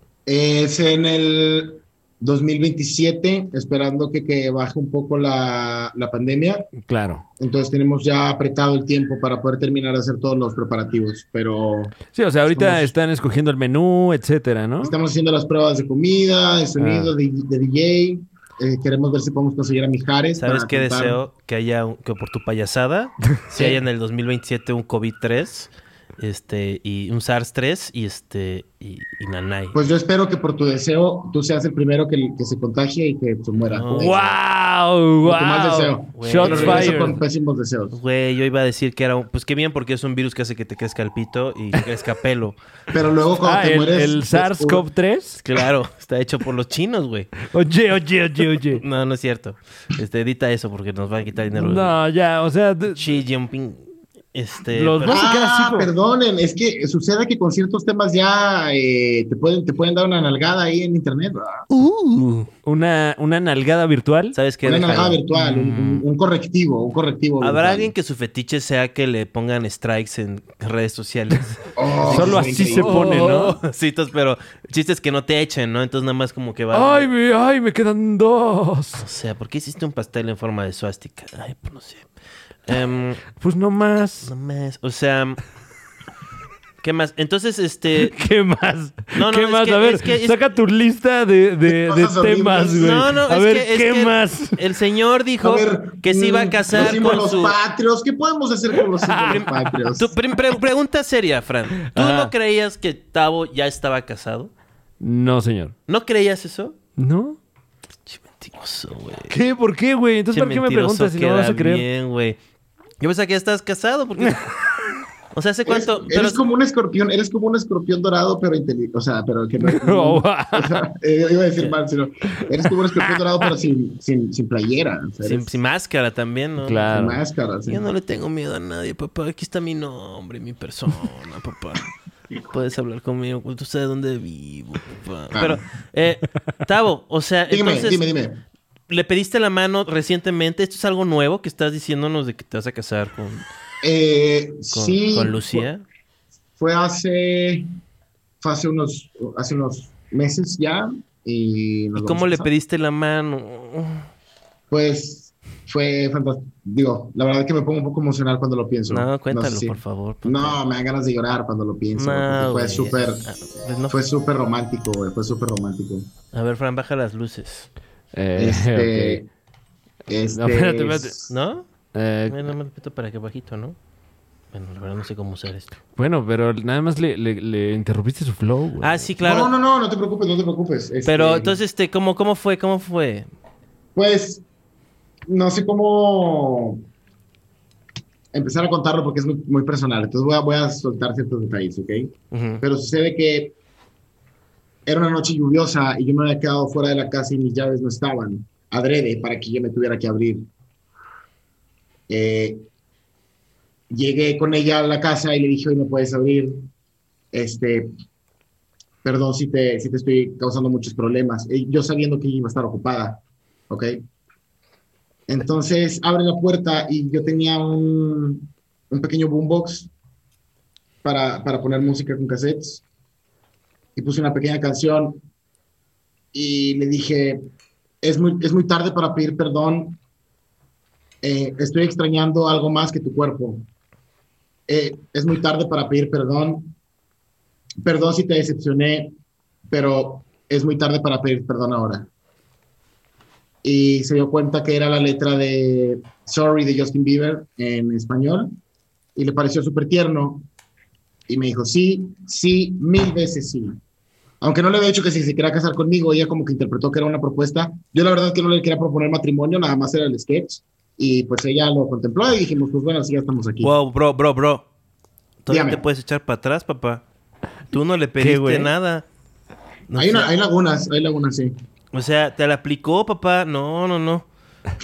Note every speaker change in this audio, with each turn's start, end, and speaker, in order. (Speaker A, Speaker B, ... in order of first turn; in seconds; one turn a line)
Speaker A: 0.3-6.7
Speaker B: 6.8-7.2
Speaker A: 7.4-12.0
Speaker B: 12.1-14.9
Speaker A: 12.5-12.9
Speaker A: 14.8-21.2
Speaker B: 16.8-17.1
Speaker C: 20.4-29.8
Speaker A: 23.6-23.8
Speaker A: 29.7-34.2
Speaker C: 33.7-34.4
Speaker B: 34.0-37.2
Speaker A: 35.2-38.0
Speaker C: 36.2-37.2
Speaker C: 37.9-42.6
Speaker A: 42.9-44.9
Speaker B: 43.4-45.4
Speaker C: 45.4-47.4
Speaker B: 47.5-48.8
Speaker C: 48.7-52.0
Speaker B: 51.5-53.0
Speaker C: 53.0-53.8
Speaker C: 54.3-55.2
Speaker B: 54.7-55.9
Speaker A: 55.0-61.7
Speaker C: 61.7-62.5
Speaker B: 62.6-64.4
Speaker C: 64.3-66.0
Speaker A: 64.6-67.9
Speaker C: 67.4-77.1
Speaker A: 71.8-73.2
Speaker B: 72.1-73.6
Speaker B: 76.7-79.0
Speaker C: 79.0-82.1
Speaker C: 82.7-83.2
Speaker B: 83.4-84.3
Speaker C: 84.3-85.4
Speaker C: 86.8-88.2
Speaker B: 88.1-94.6
Speaker C: 89.2-90.4
Speaker A: 91.7-93.1
Speaker C: 92.8-97.6
Speaker A: 95.4-100.1
Speaker B: 99.0-99.4
Speaker C: 99.2-104.5
Speaker B: 101.8-102.3
Speaker B: 105.0-105.7
Speaker C: 105.9-106.8
Speaker B: 107.0-107.4
Speaker C: 108.1-109.4
Speaker B: 109.3-111.8
Speaker C: 110.3-112.4
Speaker C: 113.0-114.5
Speaker C: 115.3-116.4
Speaker A: 115.7-125.6
Speaker B: 119.6-120.8
Speaker C: 125.2-127.0
Speaker B: 126.6-127.2
Speaker A: 126.9-127.8
Speaker C: 127.7-131.8
Speaker C: 132.4-138.1
Speaker A: 135.3-135.6
Speaker A: 137.5-138.4
Speaker C: 138.9-143.5
Speaker A: 143.8-145.7
Speaker C: 144.7-145.8
Speaker A: 146.6-147.7
Speaker A: 148.4-152.5
Speaker C: 152.0-154.1
Speaker A: 154.7-163.3
Speaker C: 158.9-160.6
Speaker C: 162.0-164.0
Speaker A: 163.9-166.1
Speaker C: 166.3-167.7
Speaker B: 168.1-169.2
Speaker A: 168.4-169.3
Speaker A: 170.1-171.3
Speaker B: 170.3-171.1
Speaker C: 171.3-171.7
Speaker B: 171.9-172.4
Speaker C: 172.3-173.8
Speaker C: 174.5-175.8
Speaker B: 176.0-179.0
Speaker C: 178.8-179.5
Speaker A: 179.2-181.6
Speaker C: 181.1-183.3
Speaker A: 183.9-184.4
Speaker A: 185.3-186.8
Speaker A: 188.3-193.6
Speaker C: 192.3-192.6
Speaker A: 194.9-200.5
Speaker A: 202.1-202.6
Speaker A: 203.9-206.7
Speaker A: 207.3-207.9
Speaker A: 209.0-214.0
Speaker A: 215.3-219.9
Speaker A: 221.0-222.8
Speaker A: 224.0-225.2
Speaker A: 226.3-227.4
Speaker A: 228.0-230.0
Speaker A: 231.2-233.7
Speaker A: 234.7-236.8
Speaker A: 237.8-239.1
Speaker A: 239.7-242.1
Speaker A: 243.6-248.5
Speaker A: 249.2-250.5
Speaker A: 251.3-253.8
Speaker A: 254.4-263.7
Speaker C: 263.6-264.7
Speaker C: 265.4-267.0
Speaker A: 265.5-265.8
Speaker C: 267.7-269.1
Speaker B: 268.2-268.7
Speaker C: 269.9-270.3
Speaker A: 270.0-271.6
Speaker C: 271.9-274.2